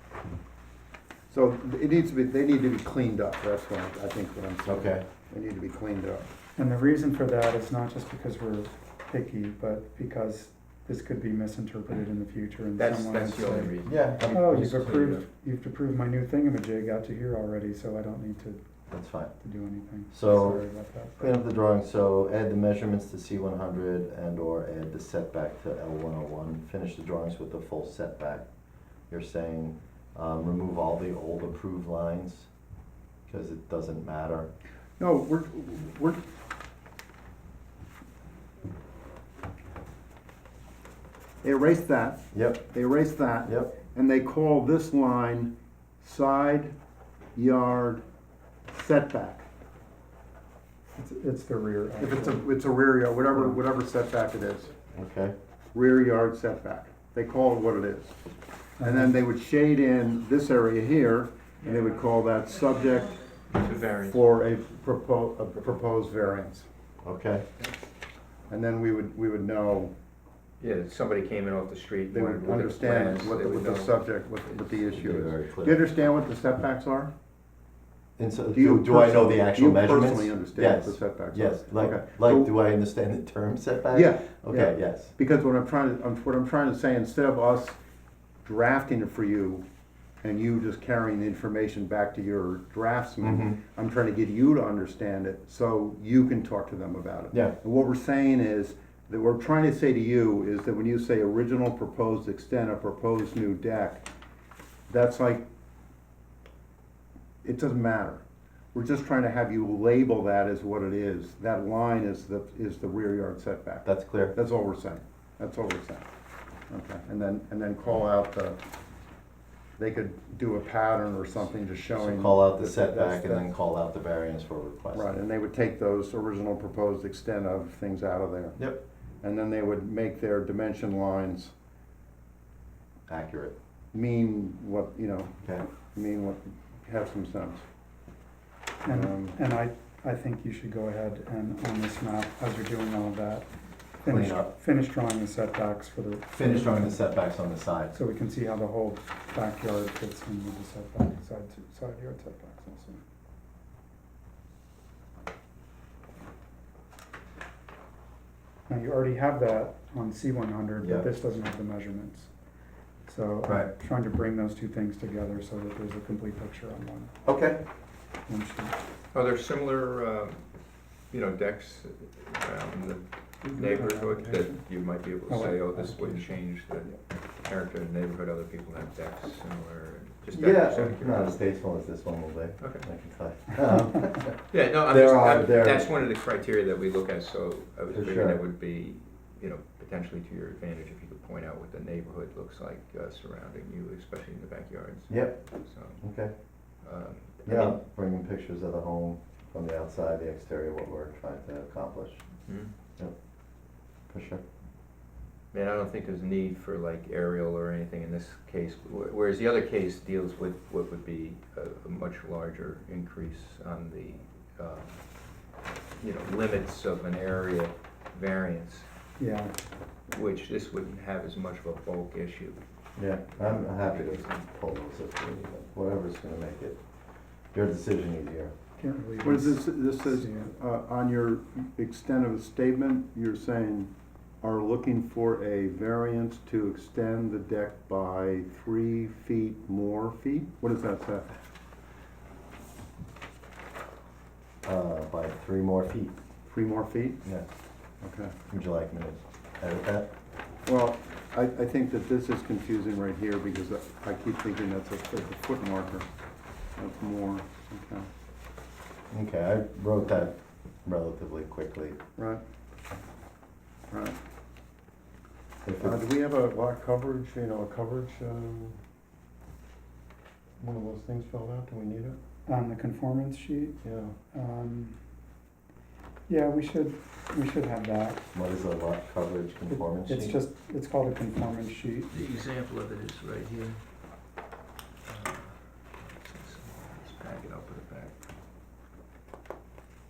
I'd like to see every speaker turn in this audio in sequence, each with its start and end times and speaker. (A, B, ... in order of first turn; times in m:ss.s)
0:01.3-0:06.2 A
0:04.6-0:05.0 B
0:06.6-0:13.8 C
0:12.8-0:15.2 D
0:13.8-0:14.8 B
0:14.3-0:18.6 C
0:18.9-0:19.3 B
0:19.4-0:21.4 C
0:20.1-0:20.6 B
0:21.2-0:28.5 B
0:29.1-0:32.5 B
0:33.3-0:34.5 B
0:35.0-0:36.2 A
0:41.4-0:46.8 A
0:42.3-0:42.6 B
0:43.5-0:43.7 B
0:47.3-0:48.0 A
0:48.7-0:49.4 A
0:51.0-0:52.4 C
0:52.0-0:54.7 A
0:54.9-0:55.3 B
0:55.7-0:58.2 A
0:58.8-0:59.2 C
0:58.8-1:03.2 A
1:03.5-1:04.2 D
1:04.0-1:06.7 A
1:07.0-1:07.4 B
1:08.5-1:09.9 A
1:10.6-1:14.5 D
1:12.1-1:17.1 A
1:14.8-1:15.8 B
1:18.2-1:25.1 B
1:18.5-1:22.5 A
1:23.9-1:27.8 A
1:28.4-1:29.6 A
1:30.2-1:44.0 A
1:33.2-1:33.6 B
1:44.9-1:45.4 A
1:47.4-1:48.2 A
1:48.7-1:56.1 A
1:53.8-1:54.3 B
1:56.7-1:58.6 A
1:59.8-2:03.4 A
2:01.9-2:05.1 B
2:04.9-2:08.6 A
2:09.2-2:11.5 A
2:13.1-2:13.6 B
2:13.9-2:17.6 A
2:18.8-2:23.5 C
2:18.9-2:19.4 A
2:24.0-2:27.0 C
2:24.1-2:24.5 B
2:26.3-2:27.9 B
2:27.9-2:33.0 C
2:38.7-2:42.3 C
2:40.8-2:41.1 B
2:43.1-2:47.1 C
2:47.2-2:47.6 B
2:48.3-2:48.8 C
2:49.1-2:50.4 D
2:51.1-3:01.3 D
2:53.4-2:54.6 A
2:55.3-2:56.4 C
3:00.3-3:05.9 B
3:02.6-3:02.8 D
3:04.5-3:16.0 D
3:07.9-3:08.4 B
3:15.1-3:15.4 B
3:16.0-3:16.3 B
3:16.8-3:17.8 D
3:17.5-3:22.2 B
3:22.5-3:22.7 D
3:24.1-3:24.4 B
3:25.5-3:35.0 D
3:36.0-3:38.9 D
3:39.2-3:39.5 C
3:40.1-3:42.6 D
3:43.0-3:46.8 B
3:43.4-3:44.4 D
3:47.5-3:48.5 B
3:48.8-3:50.5 C
3:49.2-3:53.9 A
3:54.4-4:01.3 A
4:04.6-4:06.2 B
4:06.5-4:07.2 A
4:08.0-4:08.3 A
4:08.5-4:10.1 B
4:10.7-4:16.1 A
4:16.8-4:18.1 A
4:19.1-4:22.0 B
4:22.2-4:22.4 A
4:23.9-4:24.2 A
4:25.6-4:26.0 B
4:25.8-4:28.8 A
4:30.6-4:32.2 A
4:32.5-4:33.8 C
4:33.8-4:34.2 A
4:34.3-4:35.0 C
4:36.3-4:38.2 C
4:38.3-4:40.4 B
4:39.7-4:42.2 C
4:42.1-4:43.8 D
4:45.1-4:48.1 D